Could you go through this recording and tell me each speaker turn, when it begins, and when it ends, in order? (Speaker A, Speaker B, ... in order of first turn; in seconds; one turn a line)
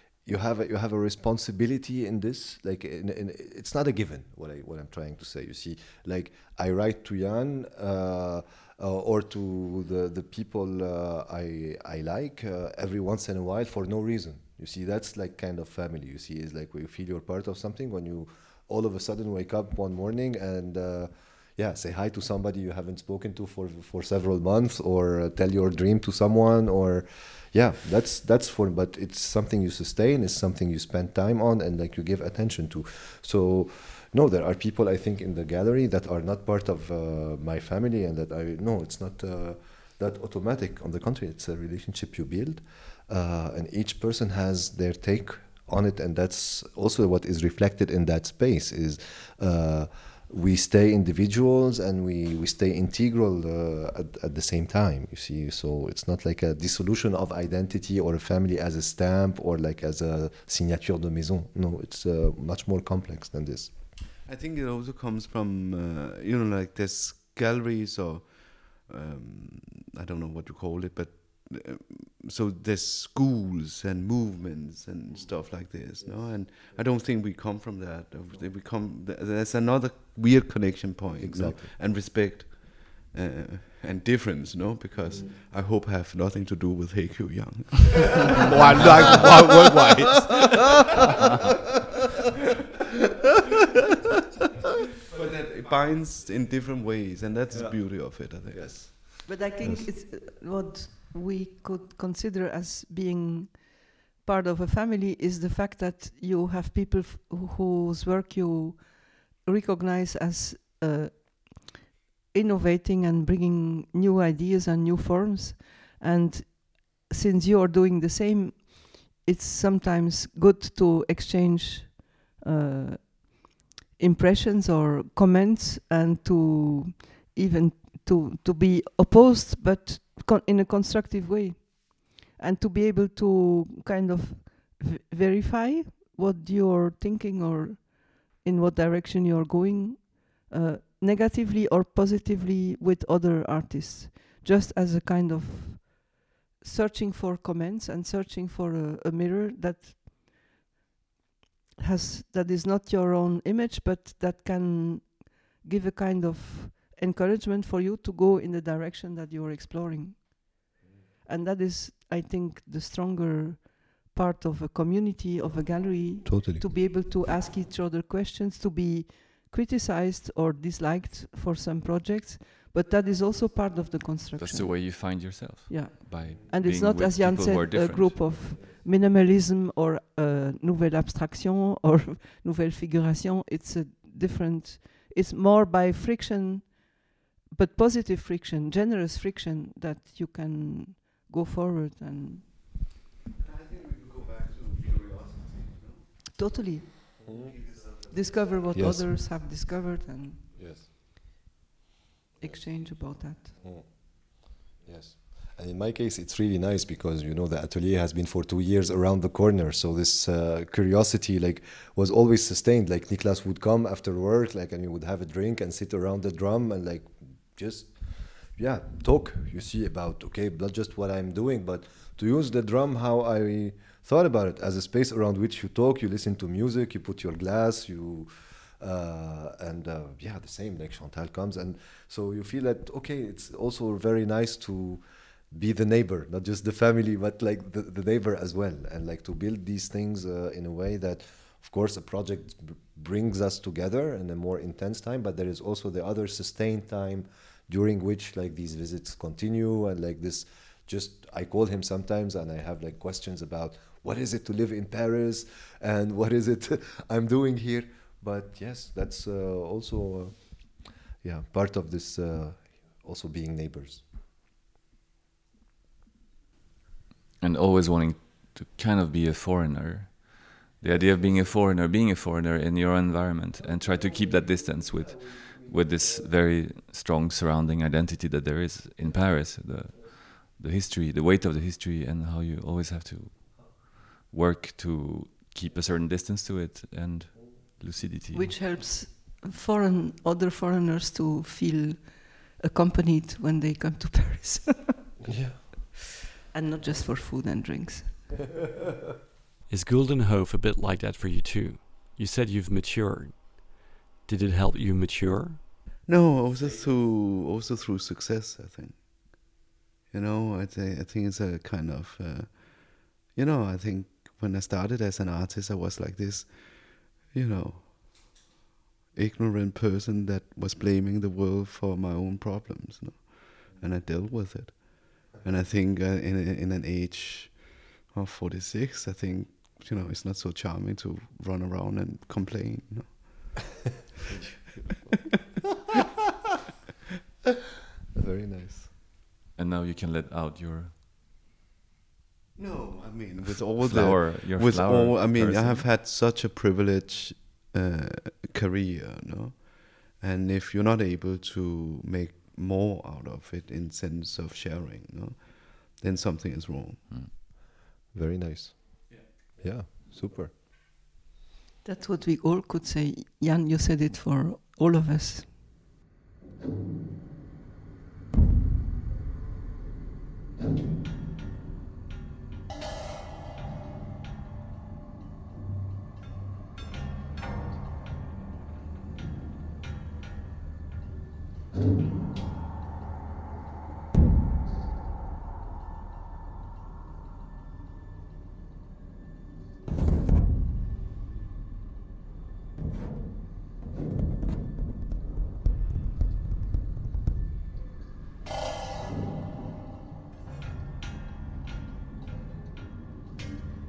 Speaker A: 0.2-64.0
Speaker B: 64.2-90.7
Speaker A: 81.2-81.7
Speaker B: 95.1-98.8
Speaker A: 97.5-99.9
Speaker C: 99.2-111.8
Speaker C: 112.3-150.4
Speaker C: 151.8-160.7
Speaker C: 161.2-192.7
Speaker A: 166.2-166.9
Speaker D: 174.4-178.3
Speaker B: 193.4-196.1
Speaker C: 196.3-197.2
Speaker A: 197.2-197.5
Speaker C: 197.9-200.4
Speaker A: 198.7-199.1
Speaker A: 200.5-200.9
Speaker C: 202.4-203.5
Speaker A: 203.4-264.0
Speaker D: 267.4-288.5
Speaker C: 288.3-295.1
Speaker A: 295.2-295.6
Speaker C: 296.5-298.3
Speaker E: 299.7-305.8
Speaker B: 306.0-318.4
Speaker B: 319.1-333.6
Speaker A: 338.1-338.9
Speaker D: 339.5-340.9
Speaker B: 342.6-357.0
Speaker D: 343.4-345.9
Speaker A: 358.1-360.5
Speaker C: 361.8-365.5